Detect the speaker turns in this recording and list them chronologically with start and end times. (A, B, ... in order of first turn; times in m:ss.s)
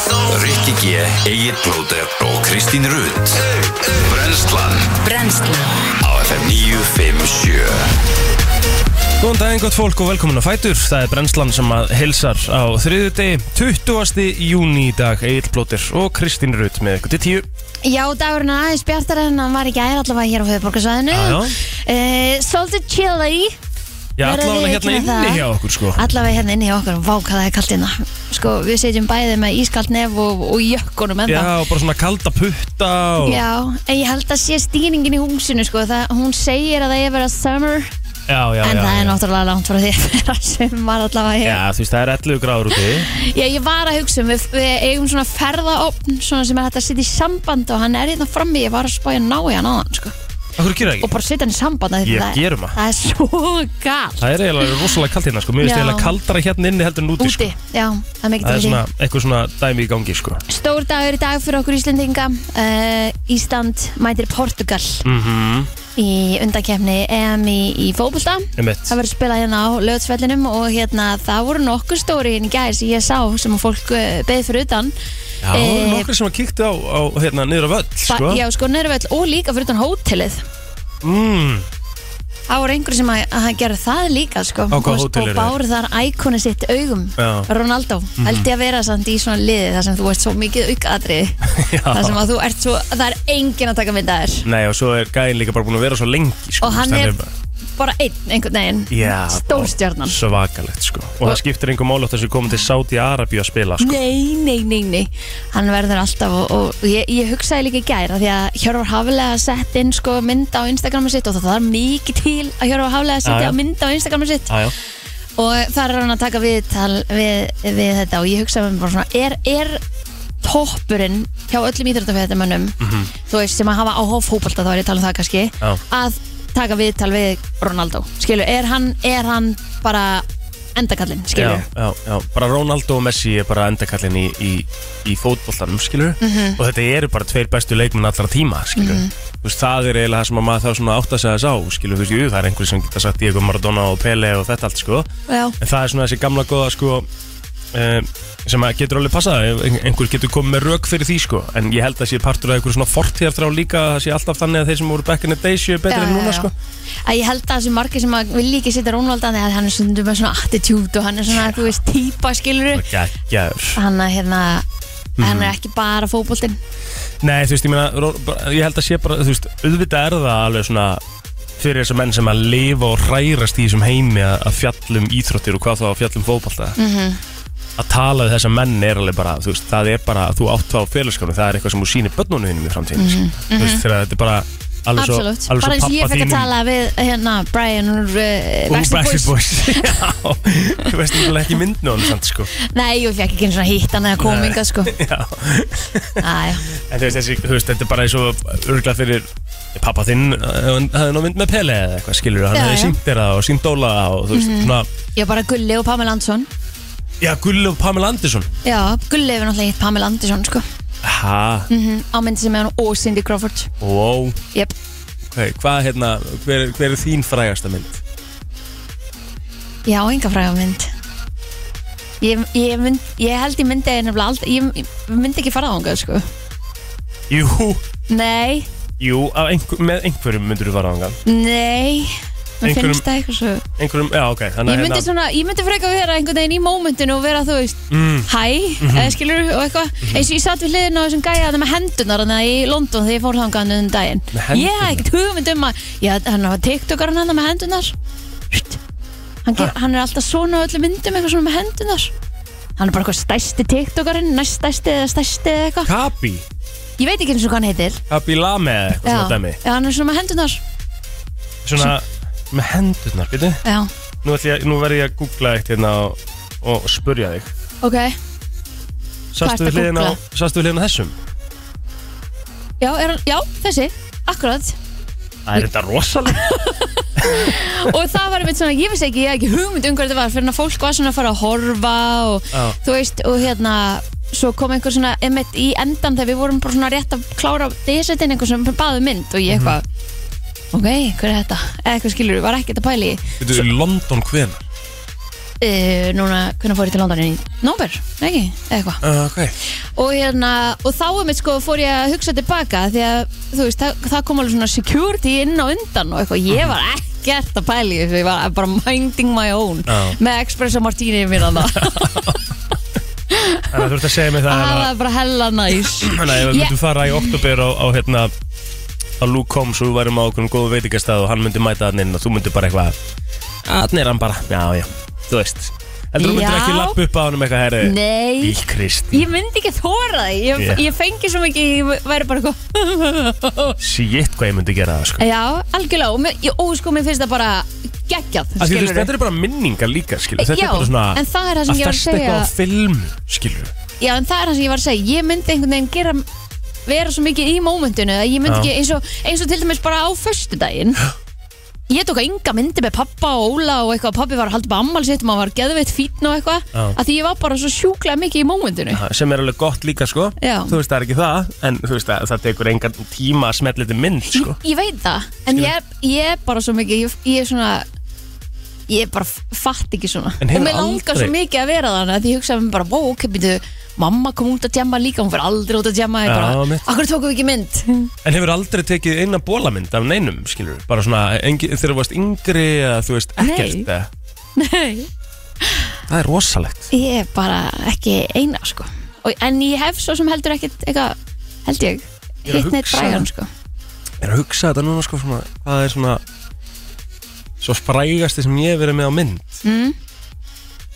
0:00.2-0:05.1 A
0:06.0-0:07.8 A
0:09.2-0:17.5 B
0:17.8-0:23.6 C
0:21.1-0:21.6 B
0:24.2-0:26.0 B
0:24.2-0:31.5 C
0:31.3-0:33.4 B
0:33.2-0:37.9 C
0:38.3-0:39.2 B
0:38.6-0:41.6 C
0:41.4-0:43.1 B
0:42.7-0:50.1 C
0:50.6-0:51.1 B
0:51.0-0:54.3 C
0:52.0-0:52.8 B
0:54.2-0:57.5 B
0:55.6-0:56.2 C
0:57.2-0:58.8 C
0:58.4-1:00.4 B
1:00.5-1:05.0 C
1:05.0-1:05.7 B
1:06.0-1:14.9 C
1:08.6-1:09.0 B
1:15.4-1:18.4 B
1:15.5-1:16.1 C
1:18.1-1:20.4 C
1:21.0-1:21.7 B
1:22.5-1:31.4 C
1:24.7-1:25.6 B
1:27.2-1:27.5 B
1:28.2-1:28.5 B
1:31.5-1:32.2 B
1:31.9-1:34.4 C
1:34.4-1:37.3 B
1:36.6-1:37.2 C
1:37.8-1:40.2 C
1:38.9-1:44.0 B
1:43.8-1:54.5 C
1:53.2-1:53.6 B
1:54.5-1:54.7 B
1:55.4-1:59.8 C
2:00.4-2:10.2 C
2:02.8-2:03.1 B
2:10.8-2:11.6 C
2:11.3-2:25.1 B
2:16.2-2:16.6 C
2:18.8-2:19.1 C
2:25.3-2:25.6 C
2:25.6-2:27.1 B
2:27.7-2:36.5 B
2:35.9-2:36.5 C
2:37.0-2:42.8 C
2:41.3-2:41.7 B
2:42.7-2:43.8 B
2:43.8-2:44.6 C
2:45.2-2:45.5 B
2:45.2-2:46.6 C
2:47.2-2:51.0 B
2:51.6-2:56.8 B
2:56.8-2:57.2 C
2:57.8-3:06.5 B
3:03.0-3:03.8 C
3:05.0-3:10.0 C
3:08.7-3:12.5 B
3:12.6-3:14.9 C
3:14.2-3:24.9 B
3:16.2-3:16.6 C
3:22.5-3:23.0 C
3:24.3-3:26.5 C
3:27.2-3:28.5 B
3:28.6-3:30.6 C
3:31.0-3:31.7 B
3:31.7-3:33.7 C
3:33.8-3:34.4 B
3:35.3-3:38.0 B
3:39.8-3:40.9 C
3:42.2-3:46.2 C
3:47.3-3:47.8 B
3:48.1-3:48.7 C
3:49.0-3:51.2 B
3:51.2-3:53.6 C
3:52.6-3:53.0 B
3:53.8-3:55.1 B
3:54.6-4:07.9 C
3:57.9-3:58.3 B
3:58.8-3:59.2 B
4:04.3-4:05.0 B
4:08.5-4:08.8 C
4:09.4-4:12.1 C
4:12.8-4:15.9 C
4:15.8-4:16.4 B
4:17.0-4:18.0 C
4:18.1-4:19.6 B
4:19.0-4:20.6 C
4:21.6-4:23.6 B
4:23.6-4:23.9 C
4:24.2-4:27.5 B
4:27.8-4:28.2 C
4:29.3-4:31.2 B
4:29.4-4:30.2 C
4:32.8-4:34.8 C
4:35.4-4:36.4 B
4:36.3-4:49.8 C
4:37.2-4:37.5 B
4:49.5-4:49.8 B
4:50.7-4:53.3 C
4:53.4-4:54.6 B
4:55.6-4:59.0 C
4:59.0-4:59.5 B
4:59.9-5:12.3 C
5:09.9-5:10.2 B
5:11.6-5:12.5 B
5:13.3-5:13.9 C
5:13.7-5:14.9 B
5:14.4-5:17.3 C
5:16.0-5:18.3 B
5:19.2-5:23.0 B
5:23.6-5:29.3 B
5:26.2-5:27.0 C
5:27.8-5:28.6 C
5:29.1-5:33.7 C
5:30.5-5:30.8 B
5:33.8-5:35.2 B
5:35.2-5:39.1 C
5:38.6-5:43.7 B
5:40.4-5:42.5 C
5:44.0-5:46.2 C
5:46.8-5:51.0 C
5:48.4-5:48.7 B
5:51.9-5:59.0 C
5:58.9-6:04.6 B
6:00.4-6:00.8 C
6:04.3-6:07.9 C
6:08.9-6:18.1 C
6:10.4-6:11.3 B
6:16.2-6:16.9 B
6:18.2-6:24.1 B
6:23.4-6:23.9 C
6:24.6-6:25.1 C
6:25.6-6:25.9 C
6:26.1-6:26.9 B
6:26.9-6:33.5 C
6:32.4-6:33.3 B
6:34.2-6:36.2 B
6:37.6-6:39.6 B
6:39.6-6:40.0 C